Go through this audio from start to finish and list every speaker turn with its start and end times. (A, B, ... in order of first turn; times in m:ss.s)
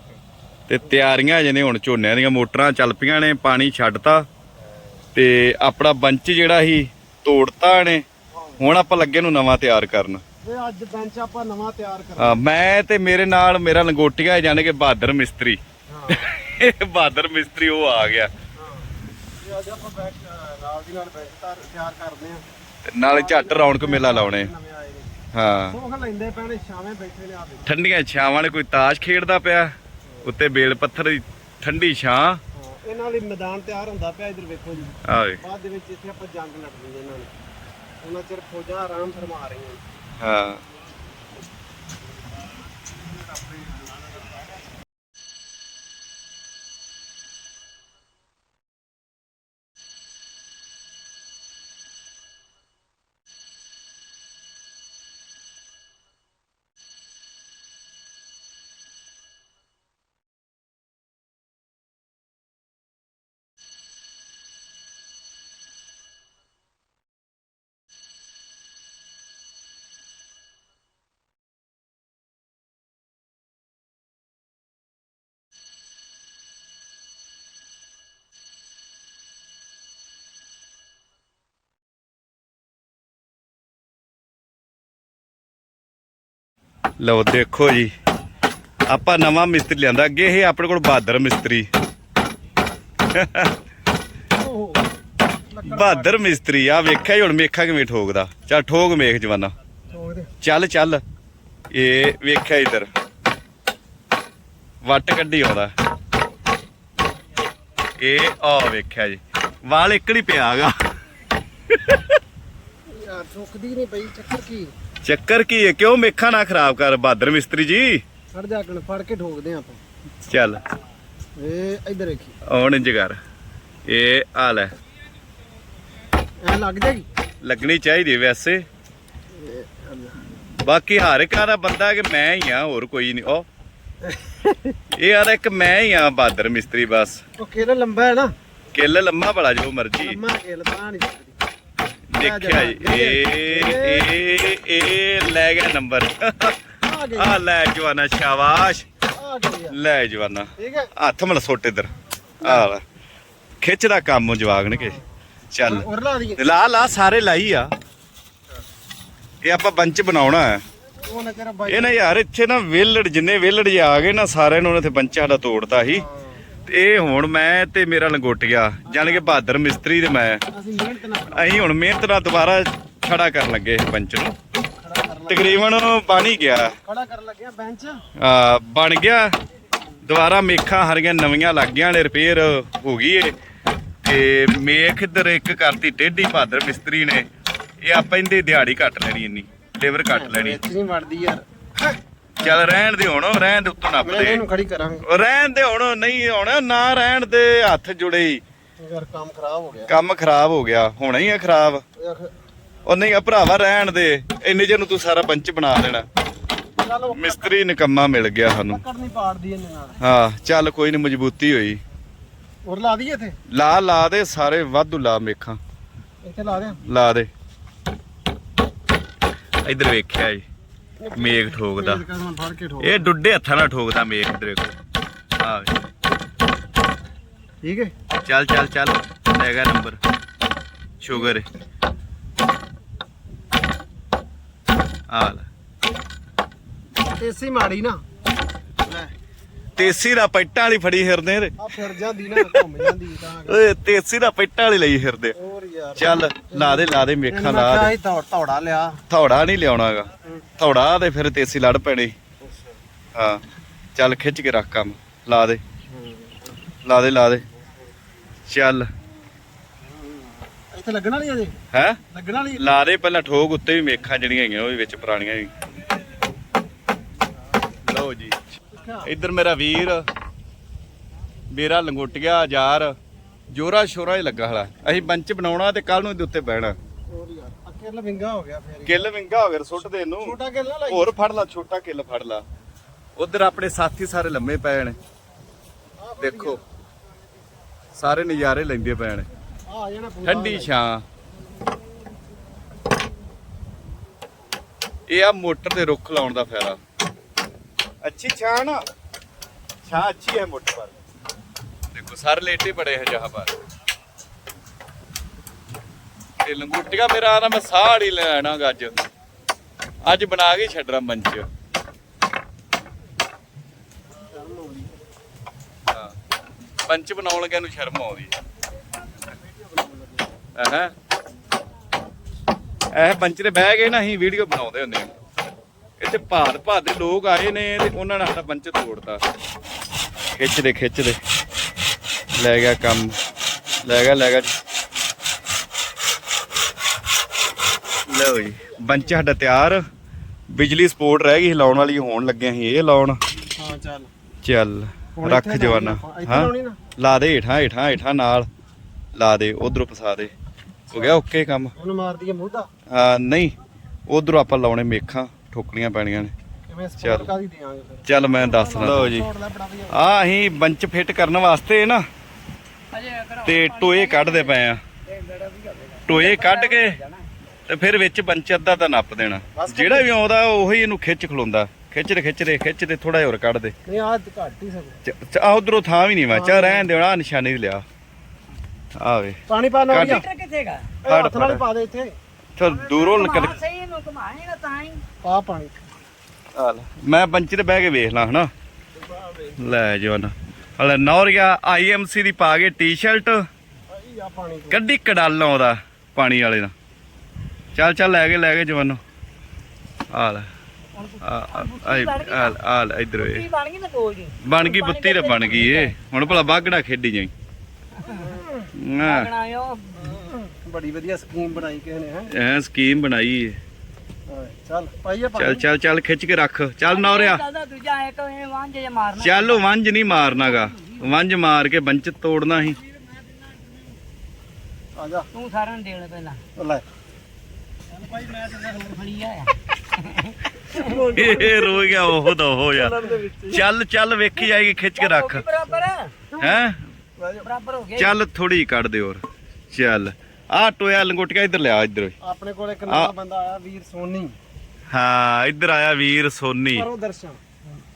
0:00.7-0:04.2 A
0:05.2-0:08.0 A
0:08.3-0:08.6 B
0:08.6-0:10.2 A
0:10.4-0:12.4 B
0:12.2-0:18.3 A
0:15.9-0:16.2 B
0:18.6-0:18.9 B
0:19.4-0:22.4 B
0:22.9-0:24.5 A
0:23.1-0:25.1 B
0:25.3-0:25.8 A
0:25.7-0:27.7 B
0:27.7-0:29.7 A
0:30.2-0:32.4 A
0:32.6-0:37.3 B
0:35.1-0:35.4 A
0:38.0-0:39.8 B
0:40.2-0:40.6 A
1:27.0-1:27.9 A
1:28.9-1:31.7 A
1:33.1-1:33.5 A
1:34.4-1:34.9 B
1:35.5-1:36.4 B
1:35.6-1:39.5 A
1:39.9-1:40.3 B
1:40.4-1:41.0 A
1:41.7-1:42.9 A
1:44.8-1:45.7 A
1:48.0-1:50.8 A
1:51.7-1:52.2 A
1:52.9-1:54.7 B
1:55.0-1:58.0 A
1:58.3-1:59.8 B
2:00.3-2:00.6 A
2:01.4-2:02.4 B
2:02.5-2:03.2 A
2:03.9-2:04.7 A
2:06.4-2:07.1 B
2:07.4-2:08.6 A
2:09.3-2:10.2 B
2:10.4-2:13.5 A
2:14.0-2:14.8 B
2:15.0-2:17.2 A
2:17.4-2:18.3 B
2:18.7-2:20.2 A
2:20.0-2:21.4 B
2:22.1-2:26.6 A
2:22.2-2:24.1 B
2:26.8-2:27.4 B
2:27.2-2:28.8 A
2:29.1-2:29.8 B
2:29.7-2:31.9 A
2:30.6-2:30.9 B
2:32.4-2:32.7 B
2:32.4-2:32.8 A
2:33.6-2:35.0 A
2:34.7-2:35.0 B
2:35.5-2:37.7 A
2:35.6-2:36.4 B
2:39.4-2:40.6 A
2:41.0-2:42.0 B
2:41.7-2:46.0 A
2:45.9-2:46.4 B
2:46.6-2:50.4 A
2:48.9-2:49.4 B
2:50.5-2:51.6 B
2:51.3-2:54.4 A
2:54.8-2:55.8 B
2:55.3-2:56.8 A
2:56.8-2:58.0 B
2:58.2-2:59.3 A
3:00.0-3:03.3 A
3:04.0-3:07.2 A
3:07.8-3:10.6 A
3:10.0-3:12.5 B
3:12.4-3:14.4 A
3:14.0-3:15.0 B
3:15.0-3:18.4 A
3:18.8-3:19.9 B
3:19.9-3:21.8 A
3:22.0-3:22.3 B
3:22.9-3:26.0 A
3:26.8-3:27.5 B
3:27.1-3:28.8 A
3:28.7-3:30.0 B
3:30.0-3:31.8 A
3:32.6-3:33.4 B
3:33.5-3:35.6 A
3:36.2-3:36.8 B
3:36.9-3:37.3 A
3:39.6-3:40.4 A
3:41.0-3:43.0 B
3:41.1-3:42.0 A
3:42.8-3:44.7 A
3:45.4-3:45.7 A
3:47.6-3:47.9 B
3:48.2-3:50.0 A
3:51.0-3:51.5 A
3:55.1-3:55.5 A
3:57.0-3:58.0 B
3:58.8-3:59.1 B
3:59.8-4:01.6 A
4:01.6-4:03.6 B
4:03.5-4:05.4 A
4:05.4-4:09.0 B
4:06.0-4:07.9 A
4:09.1-4:12.1 A
4:12.4-4:12.8 B
4:13.2-4:13.4 A
4:14.0-4:15.6 A
4:15.9-4:16.5 B
4:16.8-4:17.4 A
4:18.5-4:18.9 A
4:19.8-4:21.5 B
4:21.7-4:22.0 A
4:22.1-4:22.8 B
4:22.6-4:25.5 A
4:27.8-4:28.5 A
4:28.7-4:29.1 B
4:29.0-4:30.0 A
4:31.5-4:33.0 A
4:33.5-4:36.7 A
4:37.1-4:39.0 B
4:38.8-4:40.4 A
4:40.2-4:41.1 B
4:40.9-4:42.4 A
4:43.2-4:45.0 A
4:46.0-4:46.6 B
4:46.2-4:46.6 A
4:48.0-4:49.3 A
4:49.7-4:50.7 B
4:50.2-4:51.0 A
4:55.1-4:56.8 A
4:58.0-4:58.8 A
4:59.8-5:01.0 A
5:01.9-5:03.5 A
5:06.4-5:09.0 A
5:10.0-5:11.5 A
5:14.2-5:15.0 B
5:16.9-5:18.3 A
5:19.3-5:20.3 B
5:20.6-5:20.9 A
5:23.0-5:25.1 A
5:26.0-5:29.2 A
5:30.4-5:31.2 A
5:32.4-5:33.2 A
5:33.8-5:34.6 A
5:38.1-5:39.8 A
5:40.5-5:43.2 A
5:43.6-5:44.1 B
5:44.4-5:48.5 A
5:45.2-5:46.8 B
5:49.2-5:50.3 A
5:50.9-5:51.7 A
5:50.9-5:51.2 B
5:51.8-5:52.7 B
5:52.9-5:53.5 A
5:54.1-5:56.3 A
5:56.7-6:00.1 B
5:57.0-5:57.3 A
5:58.0-5:59.2 A
5:59.9-6:02.0 A
6:02.9-6:07.3 C
6:03.4-6:04.8 A
6:06.1-6:07.0 A
6:07.7-6:13.7 A
6:09.6-6:10.1 B
6:13.9-6:15.0 B
6:15.0-6:17.8 A
6:16.3-6:16.9 B
6:19.0-6:19.4 A
6:19.5-6:20.3 B
6:19.9-6:20.2 A
6:19.9-6:20.9 C
6:21.0-6:22.2 B
6:21.1-6:21.6 A
6:22.6-6:23.6 A
6:22.6-6:25.0 C
6:25.2-6:25.8 B
6:26.6-6:28.5 A
6:29.0-6:29.6 B
6:29.6-6:33.4 A
6:33.9-6:34.8 B
6:34.7-6:36.7 A
6:37.8-6:39.0 A
6:40.1-6:40.5 A
6:41.0-6:42.6 C
6:41.2-6:43.4 A
6:43.2-6:46.0 C
6:44.4-6:47.3 A
6:48.1-6:48.7 B
6:48.8-6:49.3 A
6:49.0-6:50.2 C
6:50.0-6:52.3 B
6:52.3-6:53.6 A
6:54.3-6:55.6 B
6:55.4-6:57.4 A
6:56.9-7:01.1 C
6:59.2-7:02.8 A
7:05.0-7:05.3 B
7:05.3-7:06.4 C
7:06.6-7:06.8 B
7:08.1-7:11.0 C
7:10.7-7:13.6 B
7:11.1-7:15.4 A
7:15.0-7:16.1 C
7:16.4-7:16.8 A
7:17.2-7:17.5 B
7:17.4-7:18.2 C
7:18.0-7:22.1 A
7:22.2-7:24.4 B
7:22.9-7:23.1 A
7:24.9-7:26.9 A
7:26.7-7:27.4 B